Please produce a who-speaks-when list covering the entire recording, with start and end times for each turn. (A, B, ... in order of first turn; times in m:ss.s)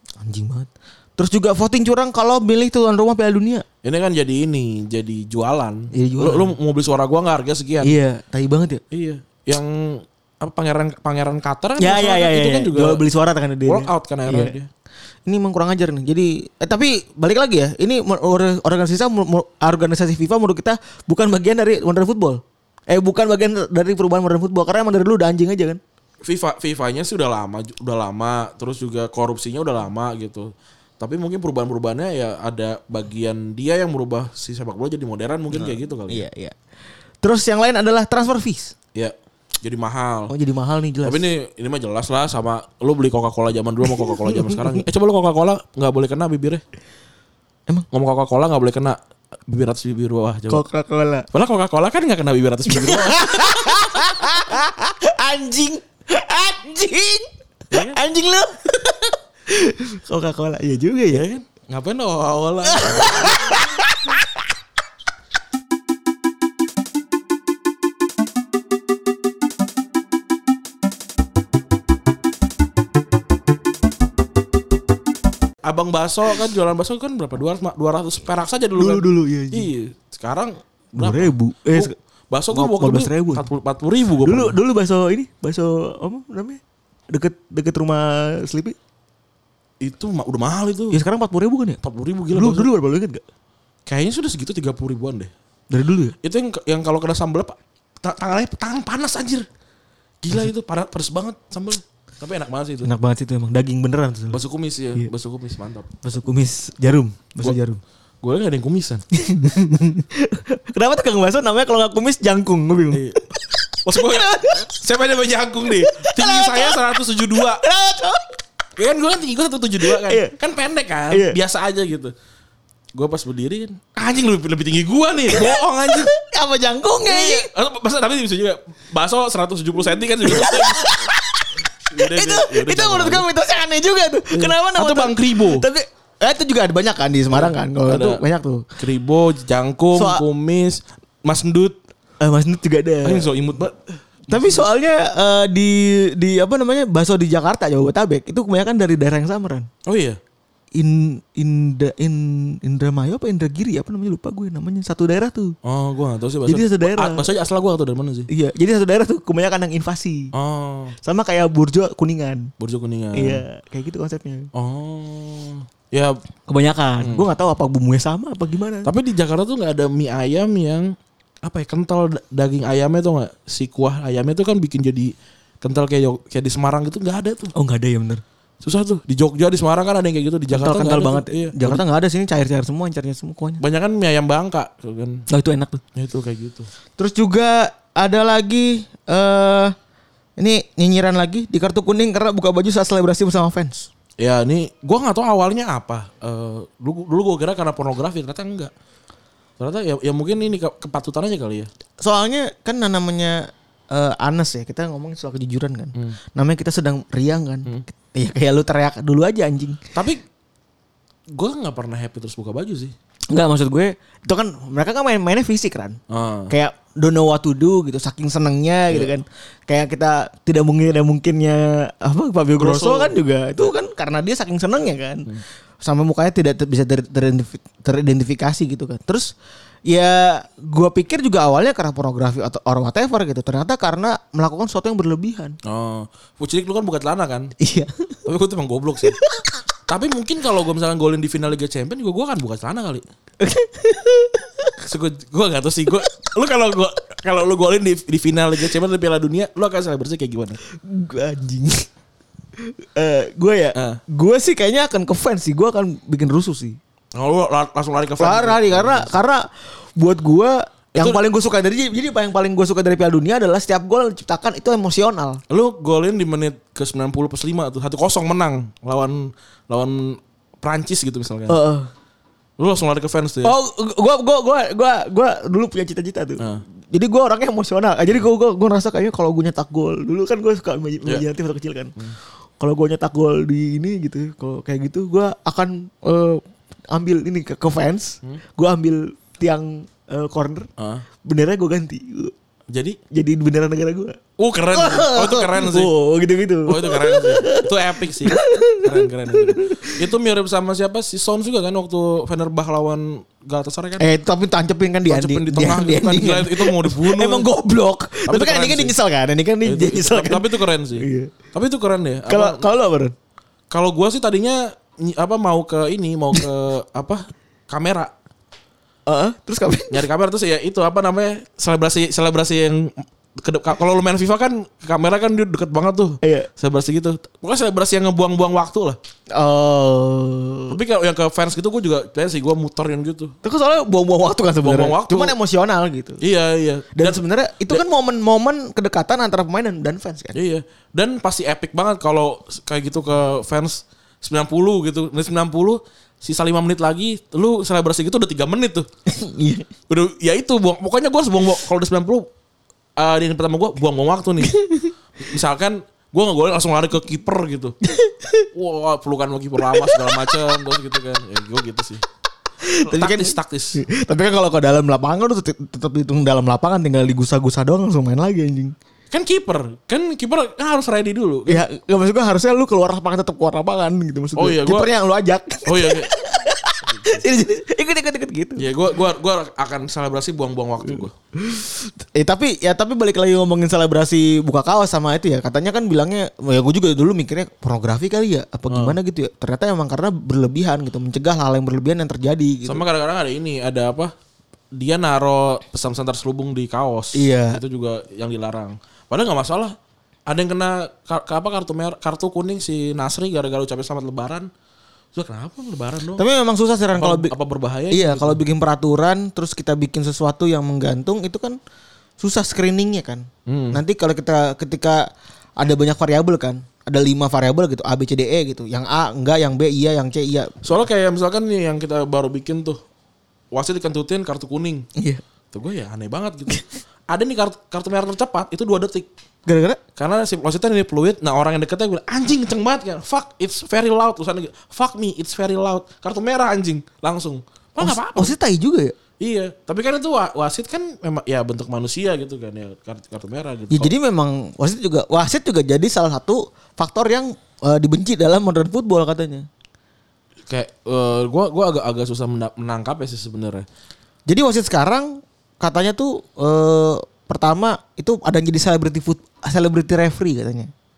0:00.2-0:03.6 A
0:03.8-0:07.9 B
0:05.9-0:06.5 A
0:07.8-0:08.8 A
0:08.9-0:13.0 B
0:11.8-0:14.6 A
0:13.6-0:14.7 B
0:15.2-0:25.8 A
0:26.2-0:36.2 B
0:35.5-0:36.6 A
0:37.2-0:38.7 A
0:38.9-0:40.3 B
0:40.3-0:41.2 A
0:41.0-0:46.6 B
0:44.0-0:44.8 A
0:47.9-0:50.6 B
0:50.5-0:51.3 A
0:51.3-0:53.7 B
0:52.7-1:01.2 A
0:57.7-0:58.0 B
1:01.1-1:03.6 B
1:02.6-1:04.4 A
1:15.6-1:24.6 B
1:18.8-1:19.7 A
1:21.0-1:21.9 A
1:22.5-1:23.4 A
1:24.2-1:28.8 A
1:29.8-1:31.0 B
1:30.9-1:31.8 A
1:31.8-1:32.7 B
1:32.3-1:33.2 A
1:33.9-1:35.3 B
1:35.7-1:36.1 A
1:36.2-1:39.4 B
1:40.2-1:42.9 B
1:42.8-1:44.4 A
1:44.3-1:45.9 B
1:46.0-1:47.8 A
1:48.2-1:49.0 B
1:49.1-1:54.6 A
1:52.9-1:53.2 B
1:53.8-1:57.6 B
1:55.6-1:58.2 A
1:58.8-2:02.1 B
1:59.8-2:00.3 A
2:01.1-2:01.4 A
2:02.9-2:06.1 B
2:05.3-2:07.5 A
2:07.0-2:11.0 B
2:10.2-2:18.7 A
2:11.9-2:13.2 B
2:14.3-2:15.6 B
2:17.3-2:18.2 B
2:18.8-2:21.8 B
2:19.9-2:20.2 A
2:22.2-2:23.3 A
2:23.0-2:24.6 B
2:24.3-2:29.7 A
2:29.8-2:30.2 B
2:30.7-2:35.5 A
2:35.6-2:38.3 B
2:36.4-2:37.2 A
2:38.3-2:40.3 A
2:40.3-2:40.9 B
2:41.0-2:42.5 A
2:42.6-2:43.4 B
2:43.1-2:44.5 A
2:44.5-2:46.2 B
2:46.5-2:48.9 A
2:48.8-2:57.5 B
2:57.5-2:58.2 A
2:58.6-3:01.8 B
3:00.5-3:03.6 A
3:03.6-3:05.2 B
3:05.3-3:05.8 A
3:05.9-3:06.7 B
3:07.0-3:09.7 A
3:10.4-3:13.9 A
3:14.2-3:18.7 B
3:19.6-3:21.7 B
3:22.0-3:29.8 A
3:29.9-3:30.2 B
3:31.3-3:32.9 B
3:33.3-3:36.0 A
3:36.1-3:36.5 B
3:36.5-3:45.3 A
3:42.6-3:43.1 B
3:45.8-3:49.3 A
3:49.9-3:55.6 A
3:55.6-3:57.5 B
3:57.6-3:58.1 A
3:58.2-3:59.2 B
3:59.9-4:03.0 B
4:03.4-4:04.8 A
4:04.8-4:10.6 B
4:10.8-4:11.9 A
4:12.6-4:16.8 A
4:13.7-4:14.0 B
4:17.2-4:19.1 B
4:18.2-4:25.4 A
4:20.9-4:21.2 B
4:25.5-4:31.6 B
4:31.5-4:31.9 A
4:32.6-4:33.5 B
4:33.4-4:41.9 A
4:42.6-4:50.7 A
4:50.8-4:51.0 B
4:51.2-4:52.3 A
4:52.7-4:53.0 B
4:53.1-4:54.2 A
4:54.4-4:55.9 B
4:54.7-5:00.0 A
4:56.6-5:04.1 B
5:04.0-5:11.3 A
5:05.1-5:07.5 B
5:08.2-5:08.9 B
5:09.6-5:12.7 B
5:12.3-5:13.1 A
5:13.7-5:18.1 B
5:19.1-5:20.0 A
5:19.9-5:29.0 B
5:26.2-5:26.5 A
5:29.3-5:30.8 A
5:30.7-5:33.3 B
5:33.4-5:36.2 A
5:34.6-5:35.3 B
5:36.2-5:37.8 B
5:36.9-5:40.3 A
5:40.3-5:48.9 B
5:49.1-5:49.7 A
5:49.9-5:52.3 B
5:53.0-5:54.6 B
5:54.4-5:54.9 A
5:55.2-5:57.8 B
5:57.8-5:58.5 A
5:58.5-6:02.0 B
5:59.7-6:00.4 A
6:02.6-6:08.7 A
6:02.8-6:03.8 B
6:09.1-6:11.6 B
6:11.5-6:18.6 A
6:14.4-6:14.9 B
6:15.6-6:16.1 B
6:16.8-6:17.2 B
6:18.6-6:21.1 B
6:20.9-6:32.8 A
6:28.7-6:29.0 B
6:32.6-6:34.1 B
6:34.7-6:39.7 B
6:37.1-6:37.6 A
6:40.3-6:44.5 B
6:45.1-6:46.2 B
6:46.2-6:47.3 A
6:47.0-6:48.4 B
6:47.9-6:51.6 A
6:52.2-7:00.6 A
6:53.5-6:53.8 B
7:00.6-7:02.8 B
7:03.5-7:04.8 B
7:05.0-7:05.2 A
7:05.5-7:09.1 B
7:09.4-7:09.8 A
7:10.0-7:18.4 B
7:17.8-7:18.9 A
7:19.2-7:23.9 B
7:23.7-7:29.5 A
7:30.5-7:33.6 B
7:34.3-7:40.7 A